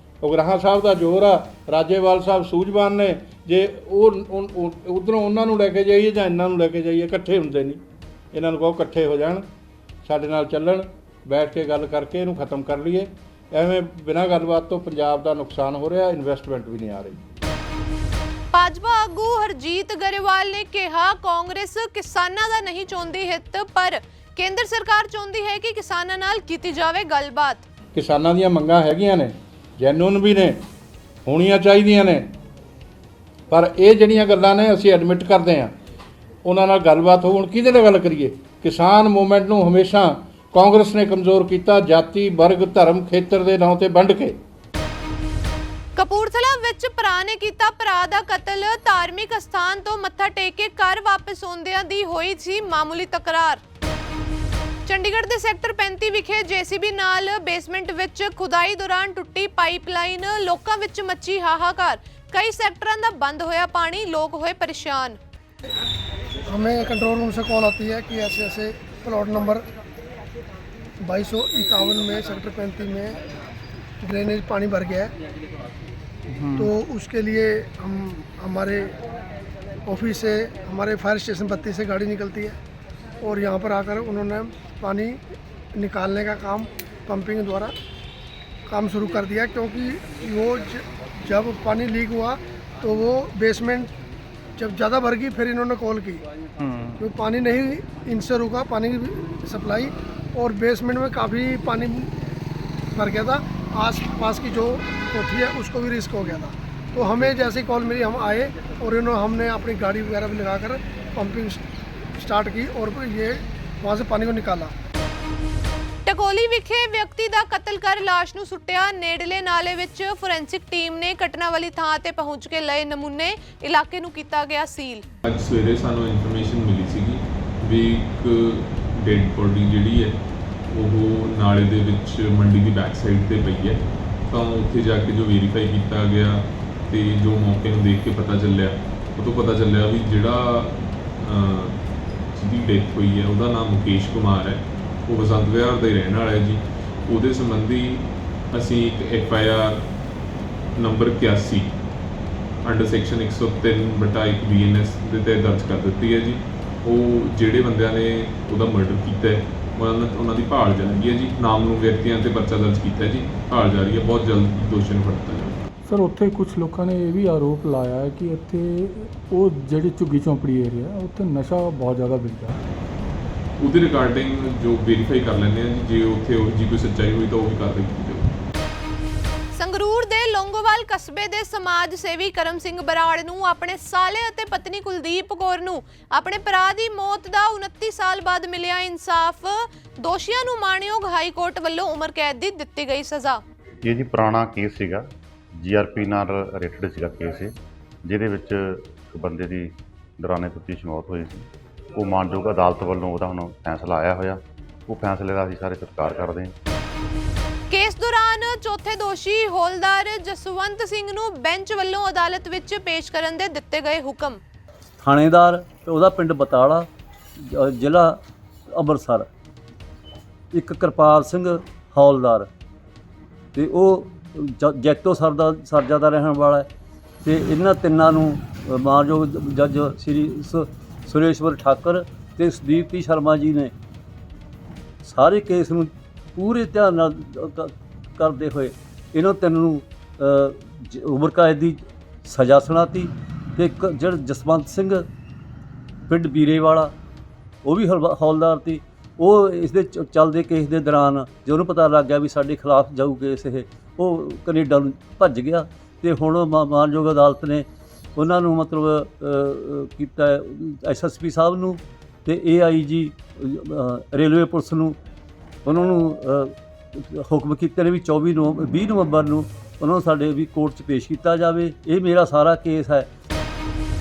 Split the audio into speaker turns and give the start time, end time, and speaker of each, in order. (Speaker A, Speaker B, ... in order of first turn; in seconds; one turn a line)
Speaker A: 0.2-7.8
Speaker A: 8.3-9.4
Speaker A: 10.1-17.2
Speaker B: 18.5-27.6
Speaker A: 27.9-30.6
Speaker A: 31.3-32.3
Speaker A: 33.5-35.7
Speaker A: 36.5-44.4
Speaker B: 46.0-53.6
Speaker B: 54.9-65.2
Speaker C: 66.5-69.6
Speaker C: 71.0-73.2
Speaker C: 74.0-75.1
Speaker D: 76.4-76.7
Speaker C: 76.6-78.9
Speaker C: 79.9-82.6
Speaker C: 83.2-85.2
Speaker C: 85.8-87.7
Speaker C: 88.7-93.9
Speaker C: 94.6-96.2
Speaker C: 97.0-102.1
Speaker C: 102.9-111.6
Speaker C: 112.2-114.7
Speaker B: 116.1-125.0
Speaker E: 125.2-130.2
Speaker E: 130.7-141.8
Speaker E: 142.3-149.8
Speaker E: 150.8-151.7
Speaker E: 152.6-165.6
Speaker D: 165.9-172.6
Speaker E: 173.6-178.3
Speaker B: 179.5-193.4
Speaker F: 193.8-206.6
Speaker B: 207.7-214.4
Speaker G: 215.0-216.8
Speaker G: 217.6-218.1
Speaker G: 218.8-219.2
Speaker G: 220.5-222.5
Speaker G: 223.6-226.7
Speaker G: 227.2-233.7
Speaker G: 235.0-245.0
Speaker G: 246.1-246.9
Speaker G: 247.6-265.0
Speaker G: 265.6-273.1